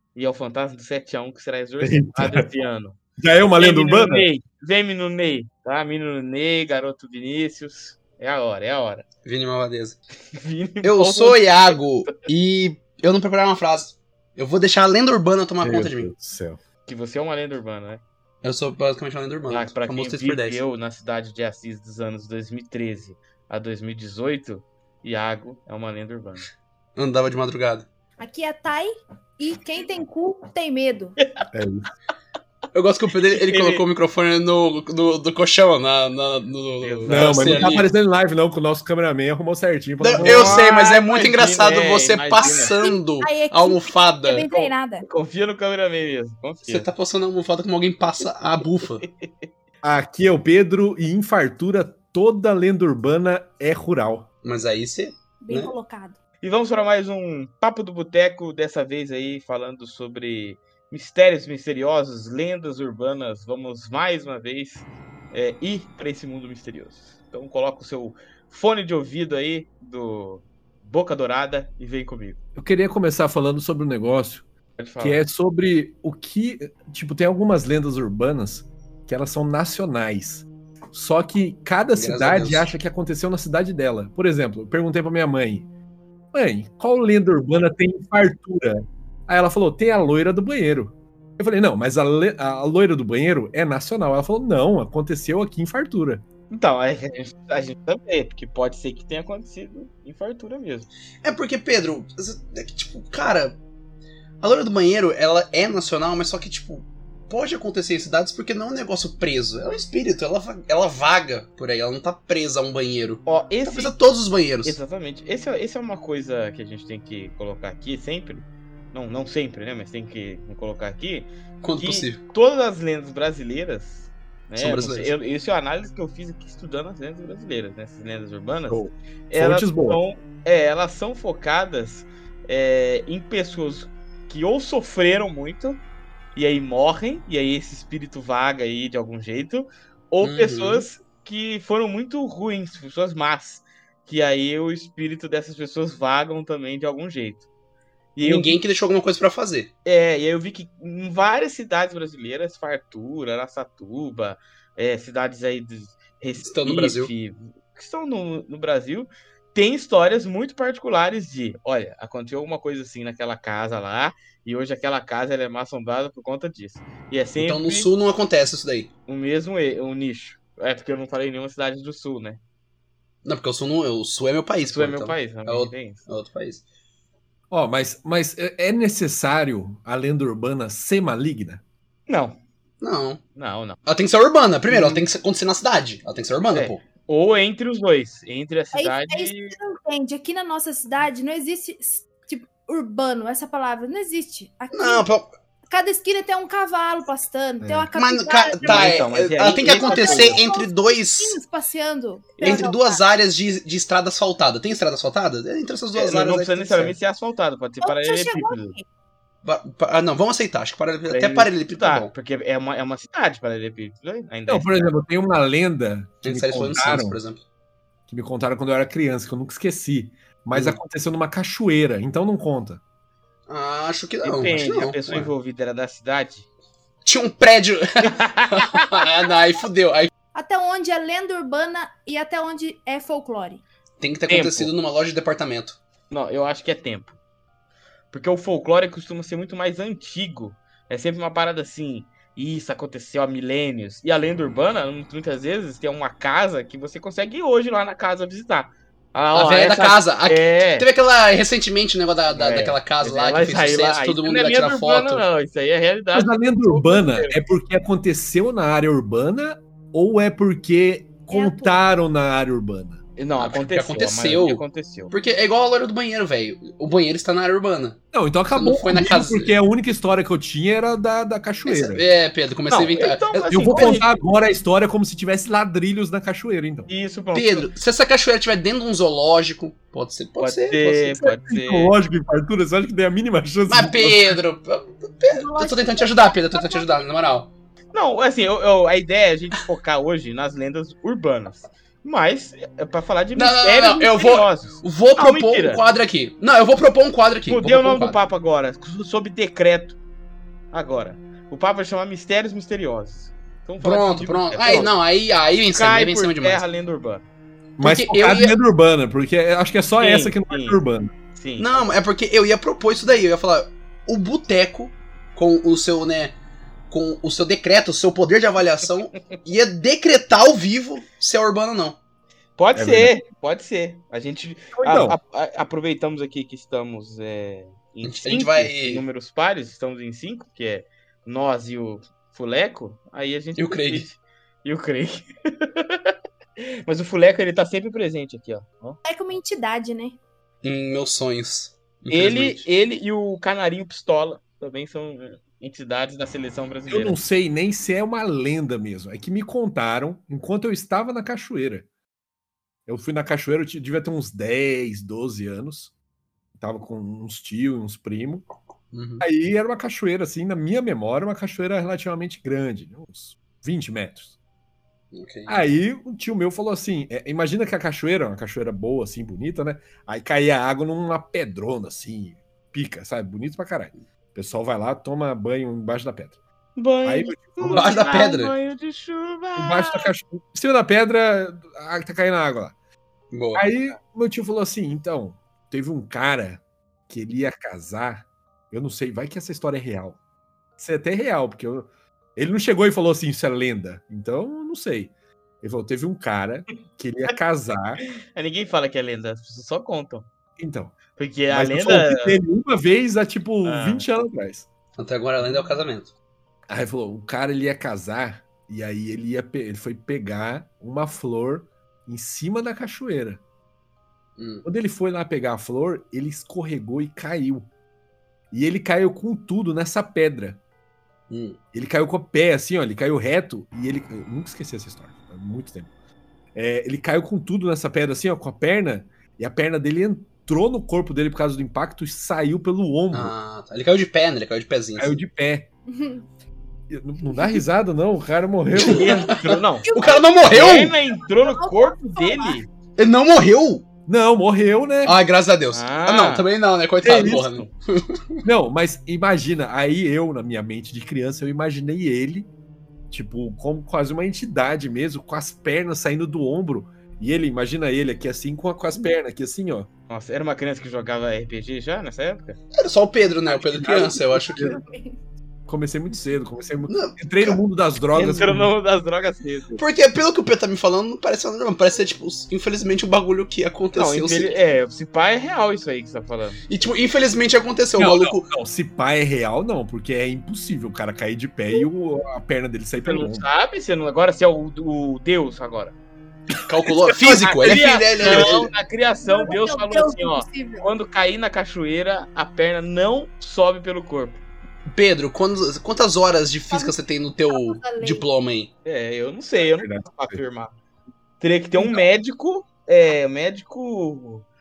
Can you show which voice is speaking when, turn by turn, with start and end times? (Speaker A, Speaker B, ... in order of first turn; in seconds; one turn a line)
Speaker A: 0.1-3.0
Speaker B: 1.8-2.4
Speaker B: 3.2-4.3
Speaker A: 3.6-9.1
Speaker C: 9.2-10.0
Speaker A: 10.3-12.2
Speaker C: 10.8-16.1
Speaker B: 15.6-16.6
Speaker A: 16.9-18.0
Speaker C: 18.4-20.6
Speaker A: 19.5-26.5
Speaker C: 26.9-27.9
Speaker D: 28.2-31.1
Speaker B: 31.5-31.9
Speaker C: 32.7-37.9
Speaker A: 33.3-33.8
Speaker A: 36.8-37.7
Speaker B: 37.1-40.6
Speaker C: 40.0-44.5
Speaker A: 40.1-42.8
Speaker D: 40.5-41.0
Speaker D: 42.4-45.0
Speaker A: 44.5-46.9
Speaker C: 46.7-49.0
Speaker A: 49.0-49.5
Speaker B: 49.8-54.3
Speaker C: 54.4-55.7
Speaker D: 55.4-56.2
Speaker A: 56.4-72.4
Speaker B: 72.5-74.4
Speaker A: 74.8-75.2
Speaker B: 75.0-85.7
Speaker C: 81.9-82.7
Speaker B: 86.3-96.2
Speaker A: 96.5-100.9
Speaker C: 101.2-103.6
Speaker C: 104.4-114.8
Speaker A: 113.2-113.9
Speaker A: 114.6-135.8
Speaker C: 121.6-122.2
Speaker C: 124.5-125.1
Speaker B: 128.7-130.0
Speaker A: 136.3-147.4
Speaker C: 140.2-140.8
Speaker A: 148.2-148.6
Speaker C: 148.2-149.7
Speaker A: 149.8-167.9
Speaker C: 156.4-157.1
Speaker C: 167.4-168.9
Speaker A: 169.1-172.4
Speaker C: 173.2-176.6
Speaker A: 174.6-176.0
Speaker B: 177.5-181.6
Speaker A: 182.1-182.4
Speaker C: 182.8-183.2
Speaker A: 183.3-183.8
Speaker C: 183.8-186.8
Speaker A: 184.7-185.0
Speaker A: 186.5-189.6
Speaker D: 188.7-195.1
Speaker C: 194.7-195.3
Speaker D: 195.7-203.0
Speaker B: 197.6-197.9
Speaker C: 197.9-201.4
Speaker A: 198.6-200.4
Speaker A: 202.4-202.7
Speaker C: 202.4-206.9
Speaker A: 205.9-208.8
Speaker D: 207.8-208.8
Speaker C: 209.4-212.1
Speaker A: 211.1-214.9
Speaker B: 214.5-217.2
Speaker C: 216.2-217.4
Speaker B: 218.1-222.8
Speaker C: 220.5-220.8
Speaker C: 223.5-225.3
Speaker A: 224.2-226.4
Speaker C: 227.0-230.1
Speaker A: 228.0-229.1
Speaker D: 230.3-233.6
Speaker C: 234.0-235.8
Speaker A: 234.3-234.7
Speaker A: 236.1-237.1
Speaker A: 238.1-250.9
Speaker C: 249.3-255.2
Speaker A: 252.3-257.4
Speaker B: 256.1-263.0
Speaker D: 261.3-261.8
Speaker A: 263.2-265.1
Speaker C: 263.4-268.0
Speaker B: 268.1-272.0
Speaker C: 268.5-269.5
Speaker C: 271.6-274.0
Speaker A: 272.7-274.2
Speaker B: 273.5-276.9
Speaker A: 276.9-277.7
Speaker C: 277.3-281.3
Speaker A: 280.4-281.9
Speaker B: 281.4-284.4
Speaker C: 283.6-287.5
Speaker D: 285.3-287.1
Speaker A: 287.9-295.8
Speaker C: 293.4-298.2
Speaker A: 297.5-300.0
Speaker A: 300.7-304.9
Speaker C: 303.8-306.6
Speaker A: 305.7-307.2
Speaker C: 307.8-308.5
Speaker B: 307.8-311.1
Speaker A: 310.0-310.8
Speaker A: 311.3-311.8
Speaker C: 311.6-316.3
Speaker C: 316.9-322.0
Speaker A: 322.6-339.0
Speaker B: 322.7-323.1
Speaker B: 324.7-325.2
Speaker C: 328.0-329.0
Speaker C: 333.6-334.1
Speaker D: 339.0-340.2
Speaker C: 340.6-342.6
Speaker A: 342.1-347.2
Speaker B: 346.9-351.9
Speaker B: 352.9-355.9
Speaker B: 356.6-358.5
Speaker C: 358.9-359.2
Speaker B: 359.2-364.3
Speaker C: 365.1-365.6
Speaker B: 365.5-376.4
Speaker A: 376.8-380.1
Speaker B: 377.0-377.9
Speaker C: 377.7-378.5
Speaker B: 379.6-382.7
Speaker C: 383.3-383.6
Speaker B: 383.5-390.2
Speaker B: 390.8-398.0
Speaker A: 398.3-400.2
Speaker B: 400.6-400.9
Speaker A: 401.1-402.4
Speaker B: 401.5-404.7
Speaker A: 403.6-404.1
Speaker C: 405.0-406.1
Speaker B: 406.7-413.4
Speaker C: 414.4-414.6
Speaker B: 414.6-417.7
Speaker B: 418.5-420.6
Speaker C: 421.3-421.6
Speaker B: 421.7-425.9
Speaker B: 426.5-433.3
Speaker C: 433.1-435.2
Speaker B: 435.0-435.7
Speaker D: 435.9-436.3
Speaker B: 436.9-439.4
Speaker D: 437.2-437.6
Speaker C: 438.7-440.9
Speaker A: 438.9-439.9
Speaker D: 439.8-442.6
Speaker A: 440.5-442.7
Speaker C: 443.0-443.9
Speaker B: 444.1-445.2
Speaker C: 445.0-448.4
Speaker A: 445.7-446.4
Speaker B: 447.0-447.6
Speaker A: 447.1-447.7
Speaker B: 448.4-452.5
Speaker B: 453.1-459.9
Speaker A: 460.1-462.6
Speaker C: 462.7-464.6
Speaker B: 463.5-464.8
Speaker D: 463.9-465.2
Speaker B: 465.7-468.7
Speaker C: 466.9-467.6
Speaker A: 468.1-469.8
Speaker C: 469.8-474.6
Speaker A: 473.9-476.6
Speaker C: 476.7-478.5
Speaker B: 478.0-483.4
Speaker A: 483.0-485.9
Speaker C: 486.6-488.7
Speaker B: 487.1-488.5
Speaker A: 487.4-494.4
Speaker D: 489.2-490.9
Speaker C: 494.9-498.7
Speaker D: 497.5-498.3
Speaker A: 498.8-500.7
Speaker B: 499.8-500.4
Speaker A: 501.4-504.4